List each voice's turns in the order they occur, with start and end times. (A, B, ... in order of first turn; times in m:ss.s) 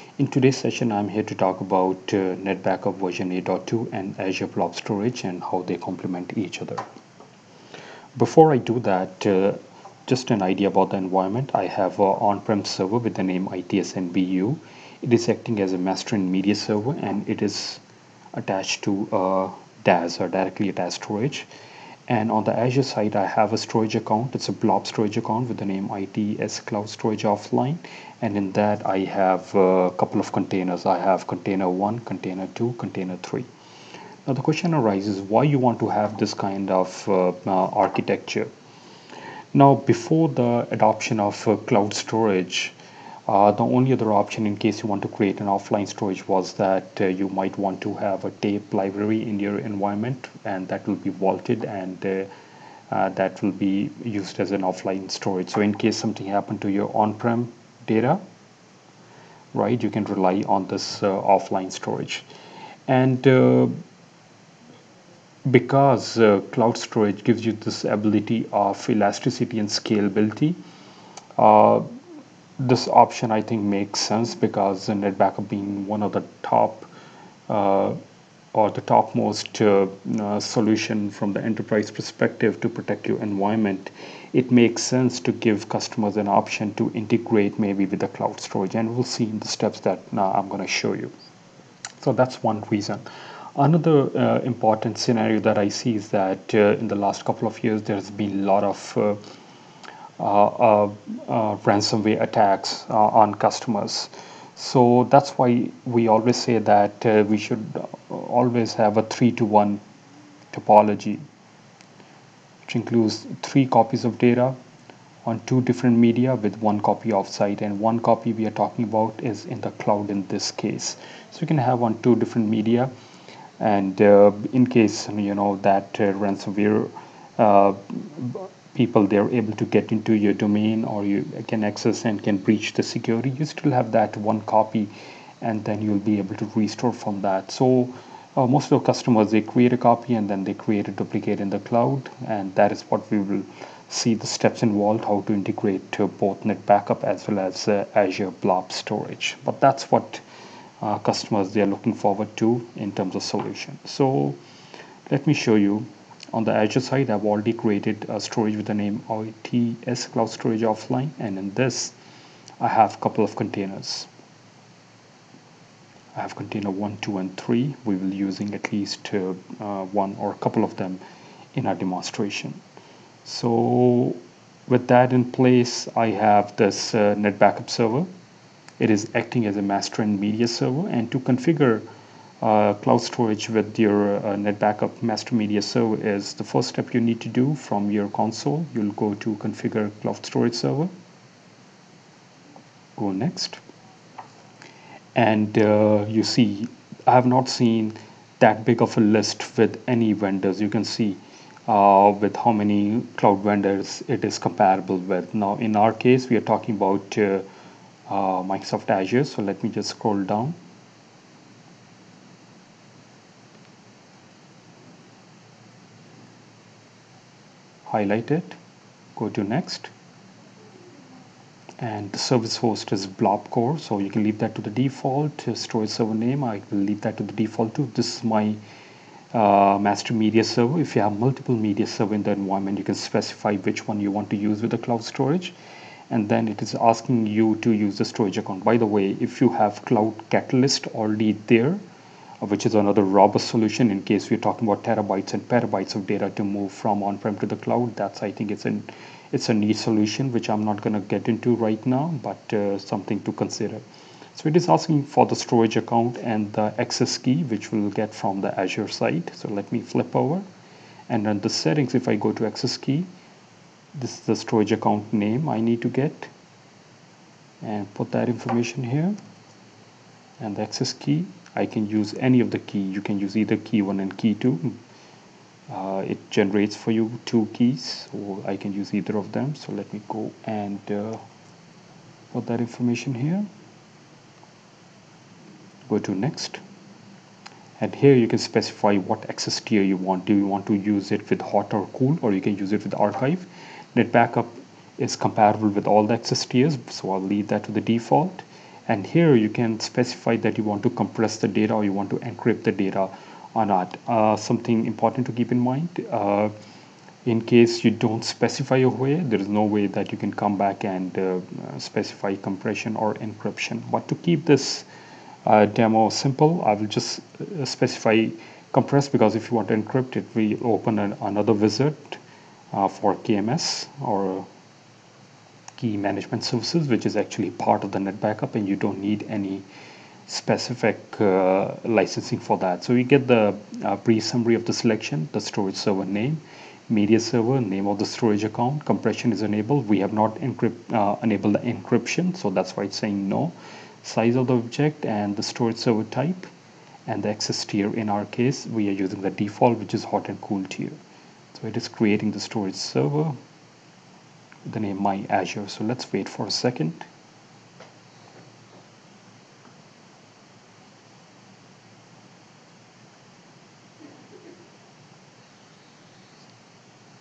0:00.2-0:06.8 A
0:08.2-0:17.8 A
0:18.4-0:21.5 A
0:22.1-0:33.5 A
0:34.3-0:38.5 A
0:39.5-0:42.8 A
0:43.3-0:52.3 A
0:52.9-0:58.2 A
0:59.5-1:02.2 A
1:02.9-1:03.7 A
1:05.5-1:10.6 A
1:11.4-1:11.8 A
1:12.6-1:16.9 A
1:17.5-1:18.0 A
1:18.5-1:31.1 A
1:32.0-1:33.0 A
1:33.6-1:39.2 A
1:40.2-1:49.8 A
1:50.5-1:51.2 A
1:52.6-1:54.6 A
1:55.2-2:02.9 A
2:03.6-2:30.2 A
2:30.8-2:34.4 A
2:35.1-2:42.0 A
2:42.6-2:44.1 A
2:46.2-2:51.0 A
2:51.6-2:52.6 A
2:53.2-2:58.1 A
2:58.8-3:01.8 A
3:02.4-3:10.9 A
3:13.0-3:13.6 A
3:15.2-3:27.4 A
3:28.1-3:30.6 A
3:37.9-3:38.6 A
3:39.2-3:39.9 A
3:41.8-3:48.6 A
3:49.3-3:55.6 A
3:56.1-4:01.8 A
4:02.4-4:13.8 A
4:14.3-4:20.4 A
4:21.1-4:23.1 A
4:24.0-4:26.3 A
4:27.6-4:29.2 A
4:30.4-4:34.8 A
4:35.7-4:41.2 A
4:42.3-4:43.5 A
4:45.9-4:46.6 A
4:47.8-5:06.5 A
5:07.2-5:14.9 A
5:15.4-5:22.2 A
5:22.7-5:24.5 A
5:25.8-5:29.6 A
5:30.3-5:46.5 A
5:47.1-5:51.0 A
5:51.5-5:53.4 A
5:54.7-5:57.1 A